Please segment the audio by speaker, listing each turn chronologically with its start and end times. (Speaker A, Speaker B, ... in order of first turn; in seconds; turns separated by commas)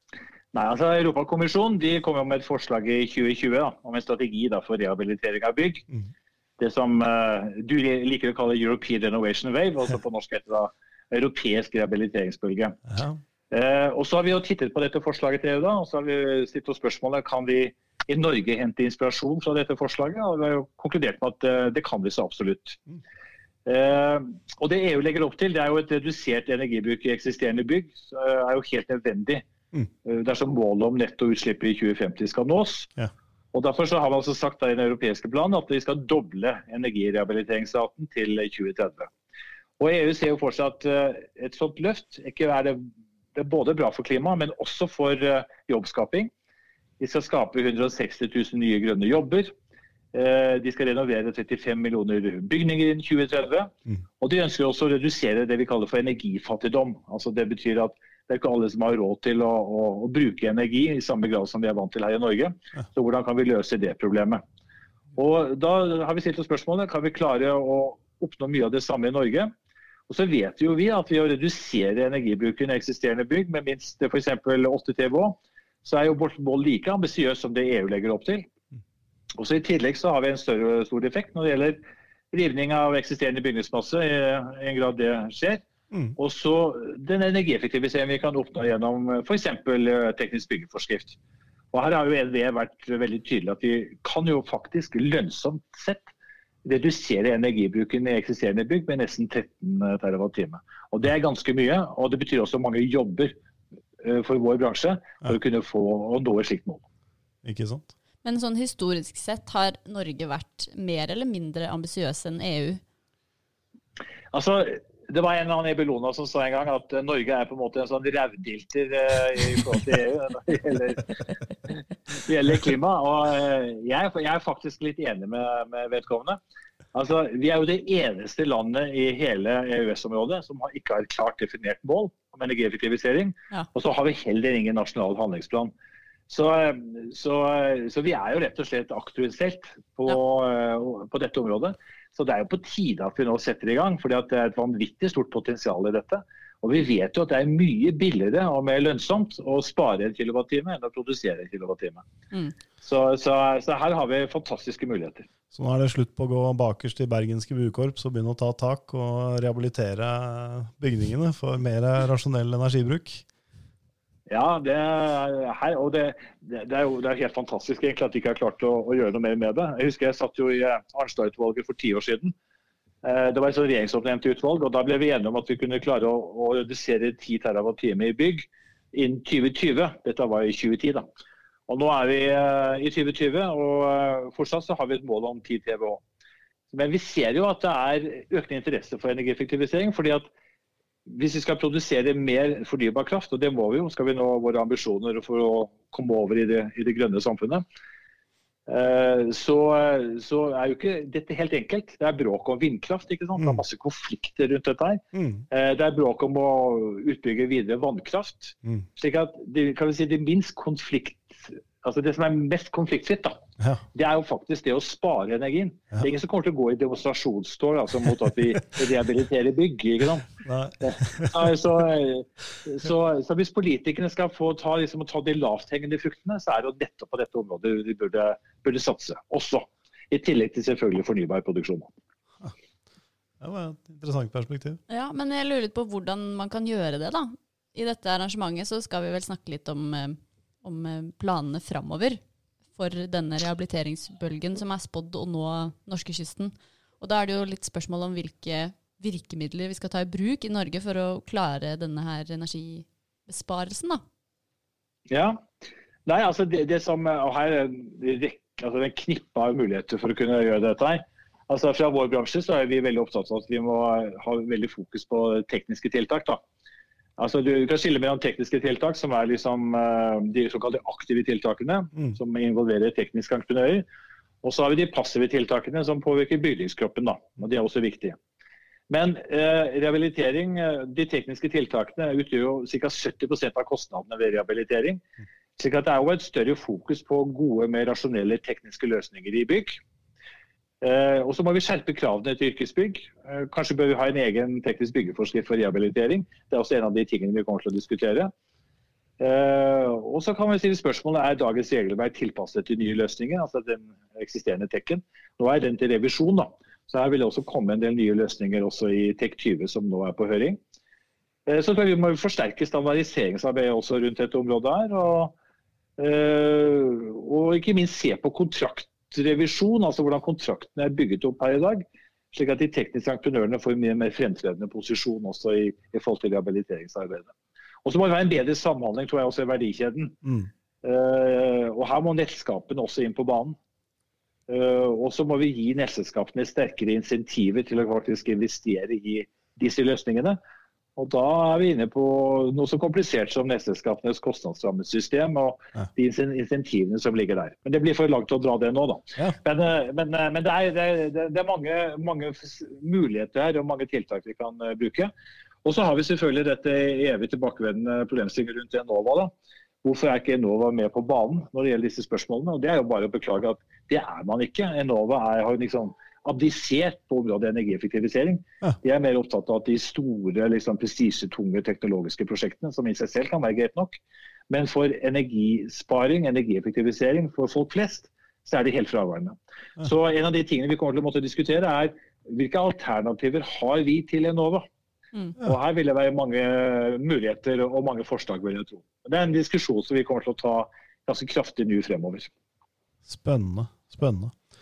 Speaker A: 0.5-5.9, Speaker A: 6.6-12.8, Speaker A: 13.5-22.8, Speaker A: 23.6-29.4, Speaker A: 30.0-32.9, Speaker A: 33.5-39.1, Speaker A: 39.8-42.8, Speaker A: 43.4-46.3, Speaker A: 47.0-49.5, Speaker A: 50.1-64.4, Speaker A: 65.2-69.5, Speaker A: 70.1-78.5, Speaker A: 79.4-81.8, Speaker A: 82.3-85.6, Speaker A: 86.2-91.2, Speaker A: 91.7-96.1, Speaker A: 96.7-103.4, Speaker A: 104.0-106.8, Speaker B: 107.4-107.9, Speaker C: 108.2-112.8, Speaker A: 114.3-121.2, Speaker A: 122.2-126.4, Speaker A: 126.9-135.7, Speaker A: 136.3-152.1, Speaker A: 152.8-155.3, Speaker B: 155.5-163.2, Speaker A: 164.3-172.3, Speaker A: 173.0-181.1, Speaker A: 181.7-186.0, Speaker A: 186.7-190.3, Speaker A: 191.1-197.6, Speaker A: 198.7-213.4, Speaker B: 205.1-205.4, Speaker A: 213.9-220.3, Speaker B: 220.4-221.5, Speaker A: 220.8-231.9, Speaker B: 233.4-234.8, Speaker C: 234.9-242.2, Speaker C: 242.8-254.0, Speaker A: 255.1-255.4, Speaker A: 256.1-266.4, Speaker A: 267.2-273.8, Speaker A: 274.4-278.2, Speaker A: 278.9-285.0, Speaker A: 285.6-289.8, Speaker A: 290.8-298.3, Speaker A: 299.2-310.6, Speaker A: 311.5-315.3, Speaker A: 316.0-327.3, Speaker A: 327.9-330.2, Speaker B: 330.2-330.5, Speaker A: 330.8-333.6, Speaker A: 334.5-340.4, Speaker A: 341.0-355.1, Speaker A: 355.6-359.3, Speaker A: 359.8-384.7, Speaker A: 385.4-392.3, Speaker B: 393.1-394.3